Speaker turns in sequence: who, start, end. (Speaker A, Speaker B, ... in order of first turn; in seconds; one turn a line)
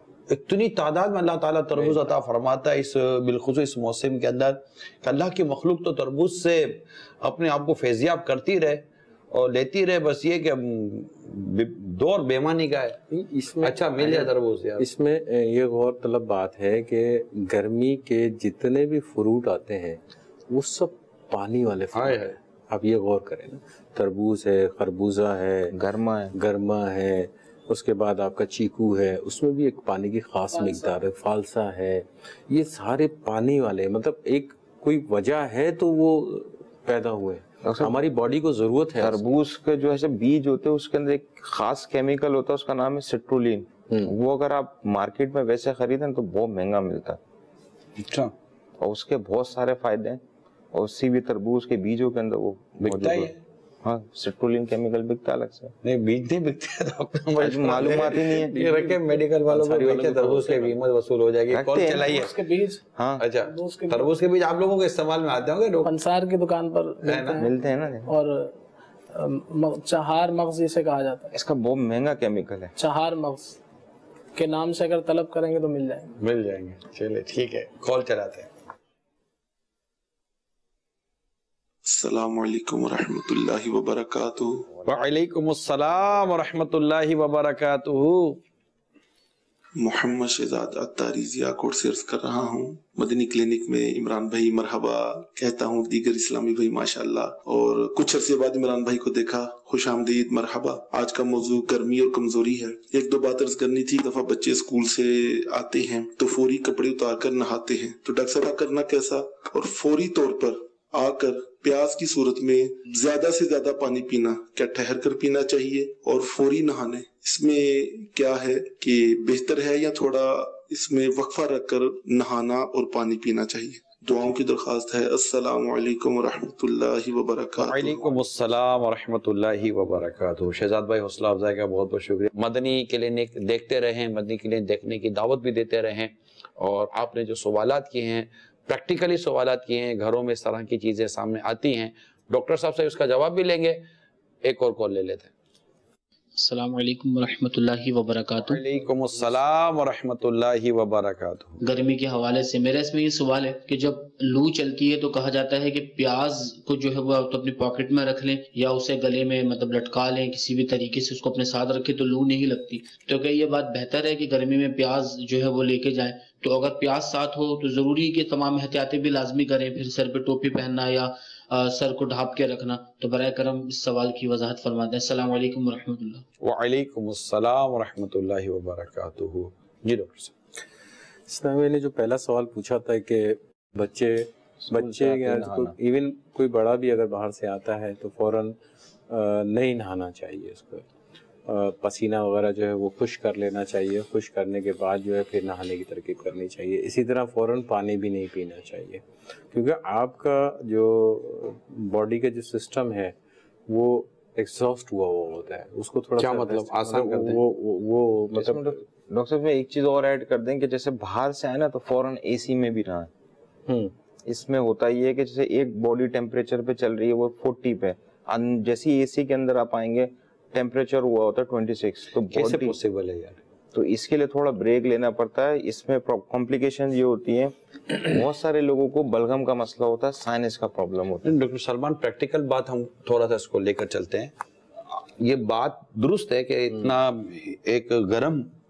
Speaker A: 0.3-13.0
Speaker B: 13.1-25.8
Speaker A: 13.6-14.8
Speaker A: 21.9-22.3
Speaker C: 25.7-26.3
Speaker B: 26.3-39.2
Speaker D: 30.5-31.0
Speaker C: 37.6-38.0
Speaker C: 39.0-47.2
Speaker A: 48.0-48.3
Speaker C: 48.8-50.2
Speaker C: 50.7-53.3
Speaker A: 52.8-53.4
Speaker C: 53.8-55.7
Speaker A: 55.8-62.3
Speaker C: 57.4-58.5
Speaker B: 58.3-60.8
Speaker C: 61.5-62.3
Speaker D: 61.9-62.8
Speaker C: 62.9-63.2
Speaker A: 63.2-65.9
Speaker D: 63.4-64.1
Speaker D: 65.8-67.5
Speaker A: 67.0-67.4
Speaker C: 67.4-68.1
Speaker D: 68.1-68.5
Speaker D: 69.1-71.3
Speaker C: 71.3-72.7
Speaker D: 72.8-73.6
Speaker D: 74.3-76.1
Speaker A: 76.2-78.5
Speaker E: 81.9-84.6
Speaker A: 84.8-88.4
Speaker E: 89.8-128.2
Speaker A: 127.6-143.8
Speaker A: 144.4-145.3
Speaker F: 146.4-148.6
Speaker A: 148.4-151.6
Speaker F: 151.6-176.2
Speaker A: 176.4-180.3
Speaker B: 181.3-188.6
Speaker C: 184.6-185.7
Speaker B: 189.1-190.8
Speaker B: 191.5-203.1
Speaker B: 203.7-208.8
Speaker A: 206.2-207.4
Speaker C: 208.3-213.1
Speaker B: 213.7-213.9
Speaker C: 214.2-222.8
Speaker A: 222.3-223.4
Speaker C: 223.7-231.3
Speaker A: 231.2-234.3
Speaker A: 234.9-238.5